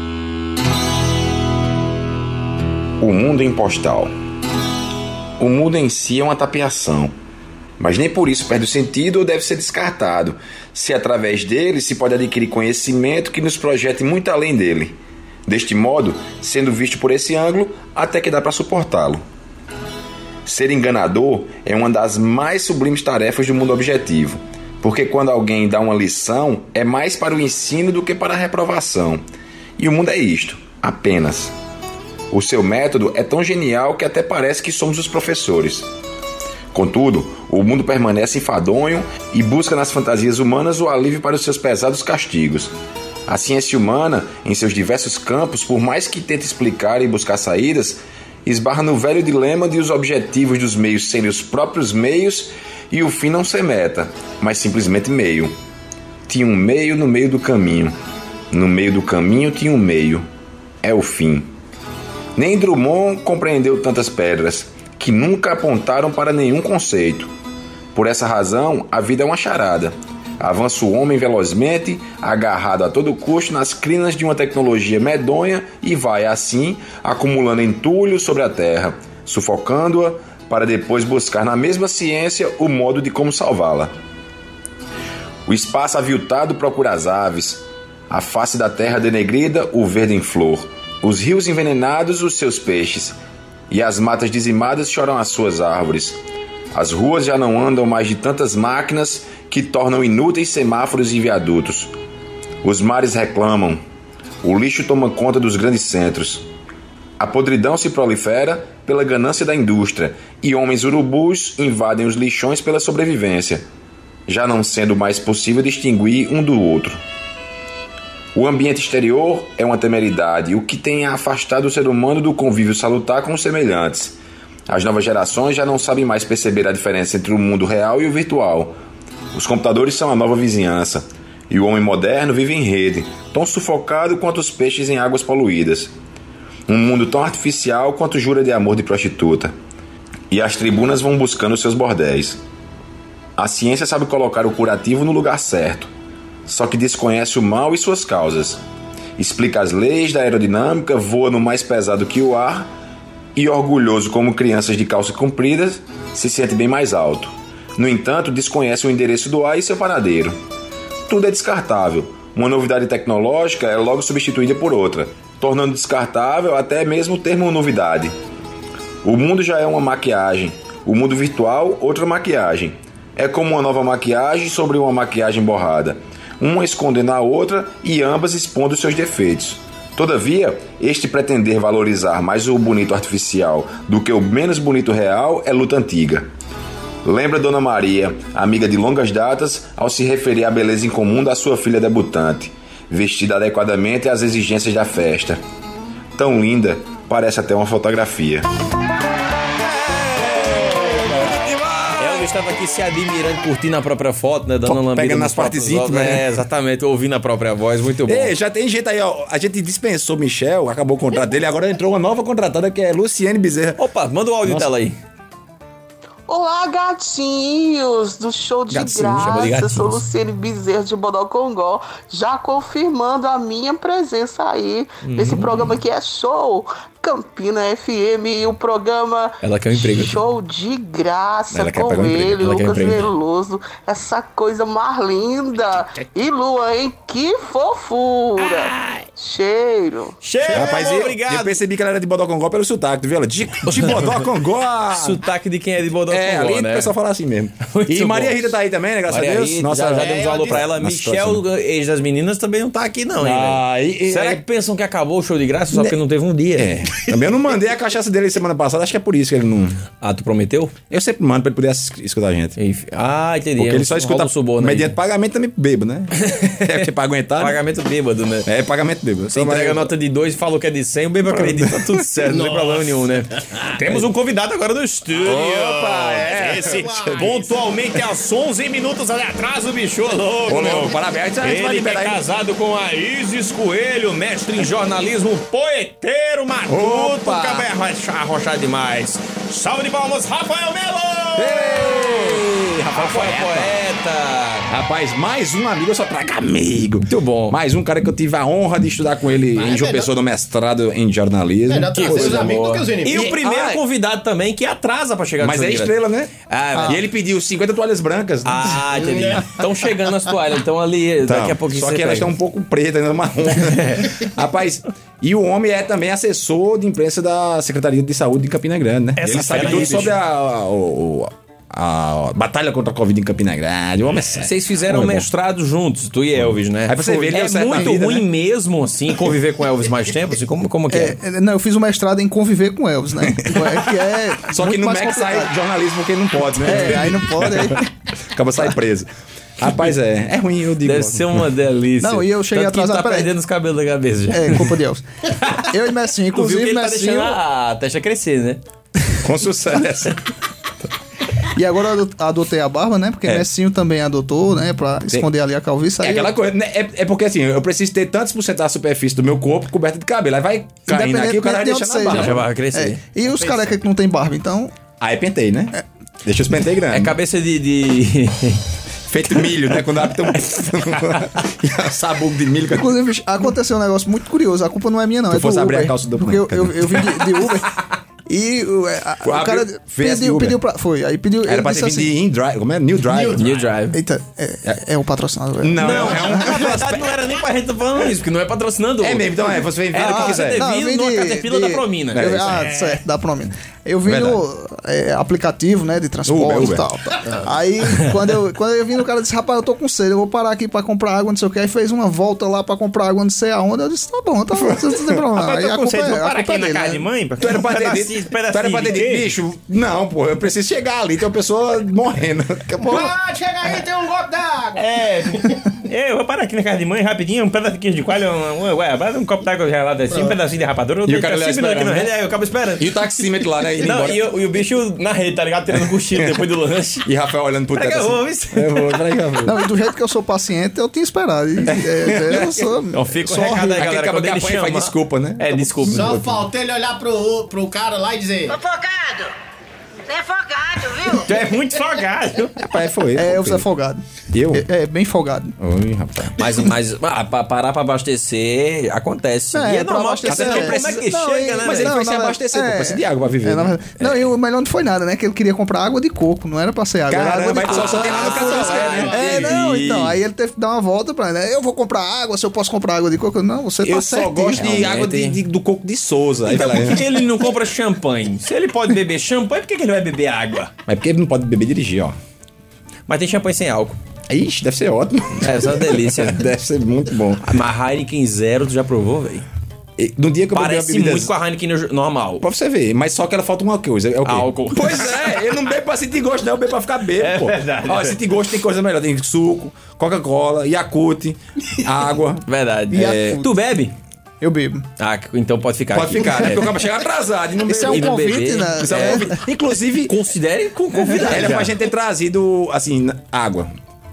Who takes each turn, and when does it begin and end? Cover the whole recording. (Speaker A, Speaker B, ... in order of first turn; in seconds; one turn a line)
Speaker A: 3.0-4.1
Speaker A: 5.4-7.1
Speaker A: 7.8-19.2
Speaker A: 20.4-29.2
Speaker A: 29.8-31.5
Speaker A: 32.3-35.9
Speaker A: 36.7-42.7
Speaker A: 43.3-55.5
Speaker A: 56.3-58.0
Speaker A: 58.5-60.3
Speaker A: 60.8-61.5
Speaker A: 62.4-67.3
Speaker A: 67.9-83.9
Speaker A: 85.5-93.2
Speaker A: 93.7-96.2
Speaker A: 96.7-101.9
Speaker A: 102.6-103.8
Speaker A: 104.4-106.5
Speaker A: 107.2-113.6
Speaker A: 114.3-117.0
Speaker A: 118.3-124.2
Speaker A: 124.7-128.8
Speaker A: 129.3-135.9
Speaker A: 136.7-139.6
Speaker A: 140.3-142.4
Speaker A: 143.4-145.9
Speaker A: 146.5-148.6
Speaker A: 149.2-152.7
Speaker A: 153.3-160.4
Speaker A: 161.1-168.1
Speaker A: 169.0-186.3
Speaker A: 187.0-195.4
Speaker A: 196.2-198.5
Speaker B: 199.8-208.3
Speaker C: 199.9-202.3
Speaker C: 204.6-206.2
Speaker C: 208.1-213.8
Speaker B: 213.8-215.0
Speaker C: 214.4-214.7
Speaker D: 216.3-240.1
Speaker C: 218.7-219.7
Speaker B: 219.0-220.0
Speaker B: 225.1-225.7
Speaker B: 229.4-230.2
Speaker C: 231.5-232.5
Speaker B: 232.4-233.1
Speaker B: 238.5-239.0
Speaker B: 240.2-241.6
Speaker C: 240.5-245.2
Speaker B: 243.6-244.3
Speaker B: 244.9-246.9
Speaker C: 246.1-251.4
Speaker B: 247.6-248.6
Speaker B: 249.1-256.9
Speaker E: 249.9-250.7
Speaker C: 253.2-254.4
Speaker C: 256.6-259.8
Speaker B: 260.0-260.8
Speaker C: 260.9-262.6
Speaker B: 262.6-264.9
Speaker C: 263.6-267.6
Speaker B: 266.2-268.5
Speaker C: 268.4-269.9
Speaker B: 269.3-294.7
Speaker C: 271.2-272.1
Speaker E: 272.3-273.0
Speaker C: 275.2-277.3
Speaker E: 276.2-277.5
Speaker C: 280.5-282.2
Speaker C: 286.7-287.7
Speaker C: 291.4-293.8
Speaker C: 294.7-303.8
Speaker B: 297.1-297.6
Speaker E: 299.7-300.1
Speaker E: 301.7-303.2
Speaker B: 301.9-305.9
Speaker C: 305.4-309.6
Speaker B: 306.5-307.0
Speaker B: 308.4-312.4
Speaker E: 309.0-309.3
Speaker C: 311.2-325.3
Speaker B: 313.6-314.1
Speaker B: 319.1-320.2
Speaker B: 324.4-331.2
Speaker C: 326.9-328.2
Speaker F: 330.9-335.5
Speaker C: 333.2-333.9
Speaker C: 334.4-341.5
Speaker F: 336.6-337.9
Speaker B: 340.8-344.7
Speaker F: 342.0-343.3
Speaker F: 344.3-347.4
Speaker B: 345.3-345.7
Speaker B: 346.3-348.6
Speaker C: 349.2-350.2
Speaker F: 351.5-356.3
Speaker C: 356.0-362.5
Speaker F: 360.9-364.7
Speaker B: 362.1-363.0
Speaker C: 365.0-367.1
Speaker B: 366.9-368.6
Speaker C: 369.1-373.0
Speaker F: 372.7-382.1
Speaker C: 375.3-377.2
Speaker C: 379.2-380.6
Speaker C: 381.4-383.5
Speaker B: 383.4-384.0
Speaker F: 383.9-386.6
Speaker C: 385.6-387.2
Speaker B: 385.8-392.6
Speaker C: 389.0-390.6
Speaker F: 390.0-407.1
Speaker C: 392.1-392.7
Speaker C: 394.1-394.4
Speaker C: 396.2-396.9
Speaker C: 404.6-405.0
Speaker B: 405.3-409.3
Speaker C: 407.4-413.2
Speaker E: 412.9-414.8
Speaker B: 414.7-427.1
Speaker C: 421.1-422.1
Speaker C: 422.8-424.3
Speaker C: 427.1-429.6
Speaker B: 427.7-429.4
Speaker F: 429.4-433.8
Speaker C: 431.6-432.6
Speaker B: 432.9-436.2
Speaker C: 433.7-436.5
Speaker E: 436.2-438.5
Speaker G: 438.5-439.3
Speaker G: 440.1-441.4
Speaker B: 441.2-442.6
Speaker C: 442.6-443.6
Speaker F: 443.1-444.0
Speaker C: 444.3-444.6
Speaker F: 444.5-445.6
Speaker C: 445.6-446.6
Speaker B: 446.4-452.0
Speaker F: 449.5-464.6
Speaker C: 450.2-451.0
Speaker C: 451.6-454.1
Speaker C: 457.1-460.0
Speaker B: 457.6-460.1
Speaker C: 463.9-467.1
Speaker B: 464.5-465.4
Speaker B: 466.5-470.7
Speaker C: 470.9-472.1
Speaker B: 473.1-474.0
Speaker C: 474.3-477.6
Speaker B: 475.4-476.5
Speaker B: 477.4-479.5
Speaker C: 480.0-481.3
Speaker B: 480.5-482.4
Speaker C: 482.4-493.4
Speaker B: 484.2-485.4
Speaker B: 487.2-488.2
Speaker B: 492.5-493.9
Speaker F: 492.9-493.5
Speaker F: 494.4-494.9
Speaker B: 495.0-496.9
Speaker C: 495.9-500.1
Speaker F: 497.7-499.4
Speaker B: 497.8-501.8
Speaker C: 501.1-503.7